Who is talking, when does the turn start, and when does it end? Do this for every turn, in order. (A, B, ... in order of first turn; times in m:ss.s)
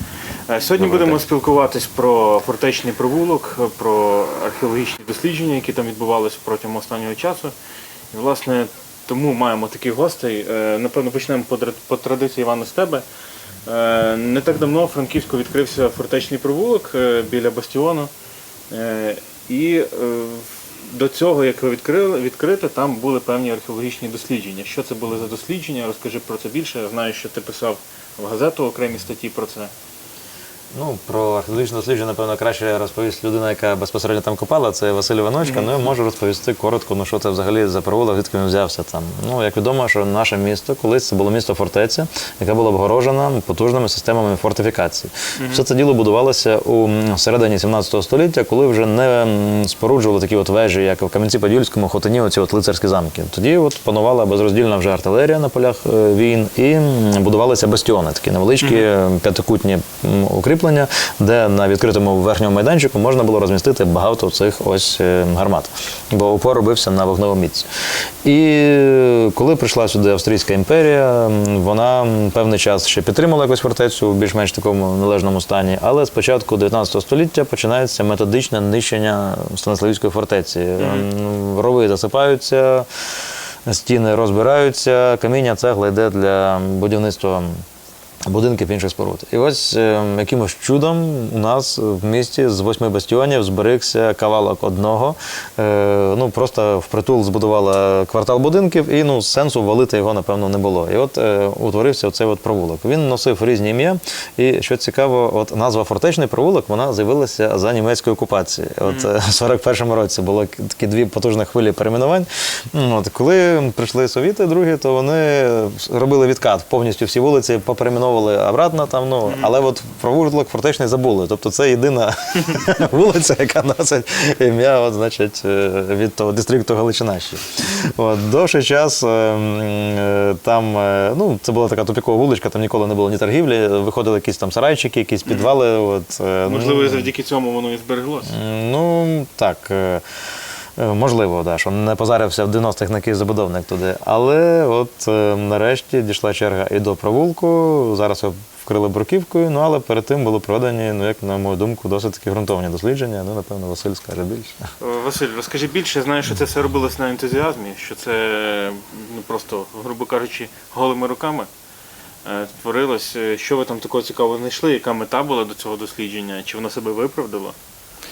0:00.5-0:07.5 A
0:00.8-0:01.2 B
0:08.1-0:13.0 A
0:13.6-0:18.1 A
0:18.7-0:29.7 A
0:30.7-1:07.7 B
0:35.4-0:35.7 A
1:08.2-1:22.9 B
1:20.8-1:21.0 A
1:23.7-1:27.6 B
1:28.3-2:17.1 B
2:16.5-2:18.3 A
2:18.3-2:20.0 B
2:20.8-2:34.6 B
2:34.8-2:41.5 A
2:42.2-2:47.6 A